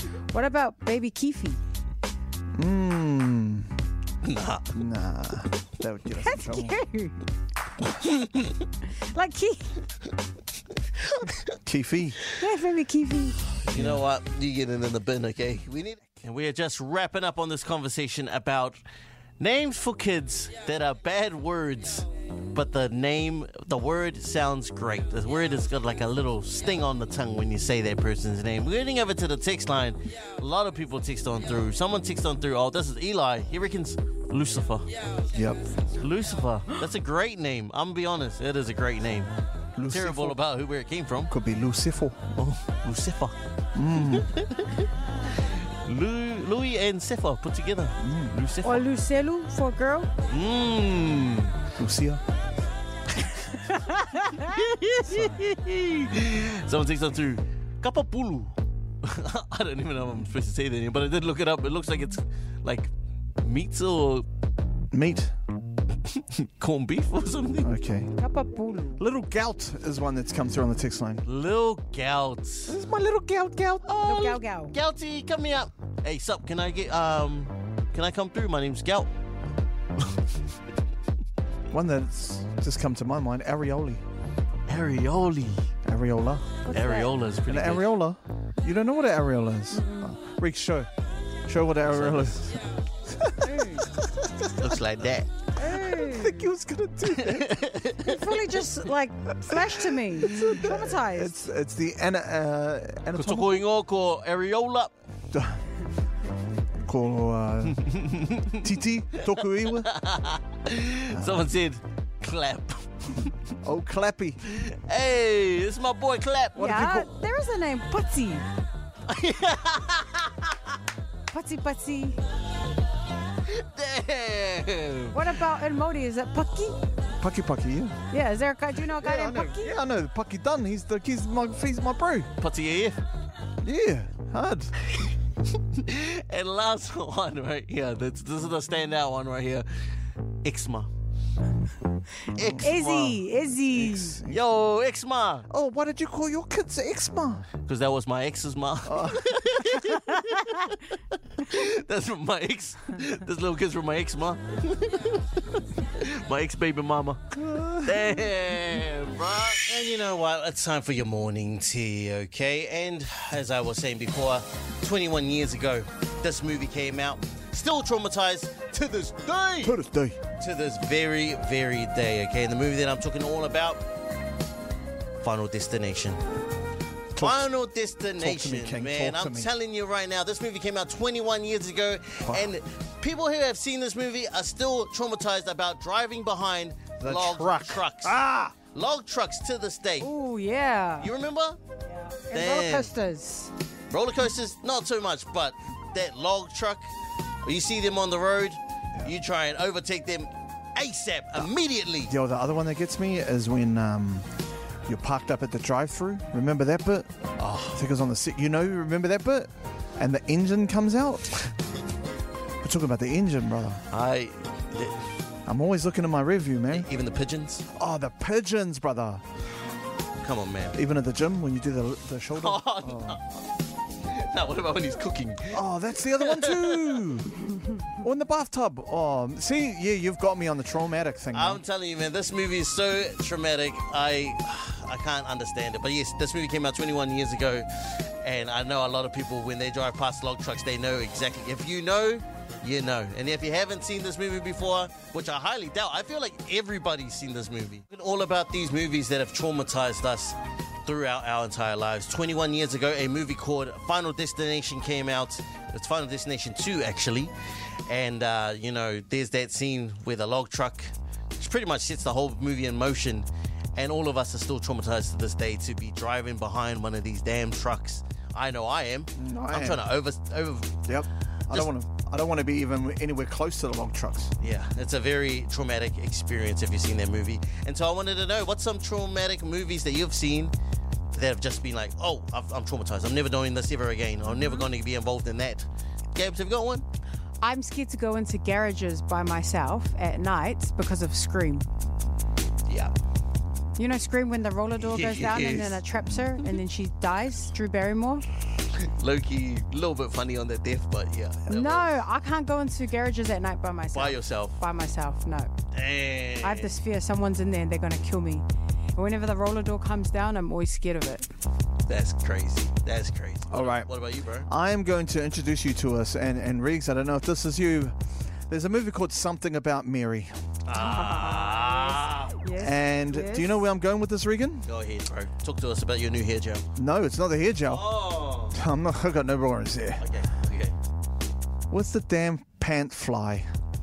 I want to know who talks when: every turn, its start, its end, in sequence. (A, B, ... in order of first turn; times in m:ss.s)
0:00.3-0:01.6 A
0:02.6-0:03.7 B
0:04.2-0:04.7 C
0:04.7-0:06.8 B
0:06.2-0:07.2 A
0:08.0-0:08.5 C
0:09.1-0:09.8 A
0:11.1-0:11.4 C
0:11.6-0:12.2 B
0:12.4-0:13.4 A
0:13.6-0:18.8 C
0:13.7-0:14.0 B
0:19.4-0:34.9 C
0:35.3-0:35.6 B
0:36.0-0:39.3 C
0:39.8-0:40.4 B
0:39.8-0:41.3 C
0:41.3-0:42.2 B
0:42.3-0:43.4 C
0:43.7-0:44.3 B
0:44.1-0:44.9 C
0:45.8-0:48.8 C
0:48.0-0:48.4 B
0:48.6-0:50.1 A
0:50.3-0:51.6 C
0:51.8-0:52.2 B
0:53.6-0:54.6 A
0:54.4-1:04.2 C
1:04.9-1:05.3 B
1:06.0-1:07.7 C
1:07.6-1:08.1 B
1:08.2-1:09.0 A
1:09.0-1:11.2 B
1:11.2-1:12.7 C
1:12.7-1:13.9 B
1:13.9-1:19.1 C
1:14.0-1:14.7 A
1:21.7-1:24.0 B
1:24.7-1:25.7 C
1:25.8-1:26.6 B
1:26.6-1:27.1 A
1:26.7-1:28.0 C
1:27.5-1:30.9 B
1:29.7-1:30.1 A
1:31.4-1:32.5 B
1:31.9-1:32.5 C
1:33.1-1:33.8 B
1:33.4-1:33.9 A
1:34.0-1:35.3 C
1:35.6-1:36.4 A
1:35.6-1:37.6 B
1:37.1-1:38.2 C
1:38.0-1:41.5 A
1:39.5-1:43.6 B
1:43.1-1:44.9 C
1:45.3-1:45.6 B
1:46.8-1:47.9 B
1:47.8-1:48.6 C
1:48.5-1:49.9 B
1:49.7-1:53.3 C
1:51.1-1:51.4 B
1:53.6-1:54.4 B
1:54.4-1:56.6 C
1:56.6-1:57.1 B
1:56.6-1:58.4 A
1:59.1-2:00.6 C
2:01.3-2:02.2 A
2:03.4-2:05.2 C
2:05.1-2:06.8 A
2:07.2-2:08.0 B
2:08.1-2:09.8 A
2:09.0-2:12.3 B
2:12.4-2:13.0 C
2:13.6-2:14.7 B
2:15.5-2:19.7 C
2:20.4-2:20.9 C
2:22.3-2:23.2 C
2:22.4-2:22.6 B
2:22.6-2:24.2 A
2:23.4-2:24.4 B
2:24.3-2:25.5 C
2:25.5-2:27.5 B
2:27.6-2:49.8 C
2:28.8-2:29.3 B
2:37.3-2:38.1 B
2:49.6-2:50.2 B
2:50.4-2:53.8 C
2:55.2-2:56.2 C
2:57.1-2:57.5 B
2:57.2-3:08.2 C
2:58.2-2:59.5 B
3:02.2-3:02.5 B
3:07.0-3:08.6 B
3:08.7-3:10.1 C
3:10.0-3:11.1 A
3:11.0-3:11.6 C
3:12.0-3:13.5 A
3:12.3-3:12.9 C
3:13.9-3:16.8 C
3:17.4-3:22.1 C
3:22.1-3:24.3 B
3:24.8-3:27.1 B
3:27.4-3:27.8 C
3:27.7-3:31.3 B
3:32.6-3:33.8 B
3:33.9-3:35.0 C
3:35.4-3:36.9 B
3:36.7-3:37.6 C
3:37.8-3:39.2 B
3:40.2-3:40.8 C
3:40.7-3:43.2 B
3:42.3-3:43.4 C
3:44.0-3:45.6 C
3:45.5-3:51.6 B
3:46.2-3:47.0 C
3:51.3-4:17.3 C
4:17.9-4:30.9 C
4:29.2-4:29.8 B
4:30.9-4:34.3 B
4:34.4-4:40.5 C
4:41.1-4:46.8 C
4:44.4-4:44.6 A
4:47.4-4:51.6 A
4:52.7-4:52.9 C
4:53.8-4:58.2 A
4:54.8-4:55.8 C
4:58.7-5:01.9 C
5:01.5-5:05.5 A
5:03.9-5:04.6 C
5:05.7-5:06.8 C
5:06.4-5:11.3 A
5:11.9-5:14.5 C
5:13.5-5:13.9 B
5:14.5-5:18.0 B
5:18.5-5:20.3 B
5:20.6-5:22.4 C
5:20.7-5:23.6 A
5:22.6-5:24.7 B
5:24.6-5:26.6 C
5:26.8-5:27.8 B
5:27.7-5:28.6 C
5:28.5-5:30.0 B
5:30.0-5:30.7 C
5:31.7-5:33.4 B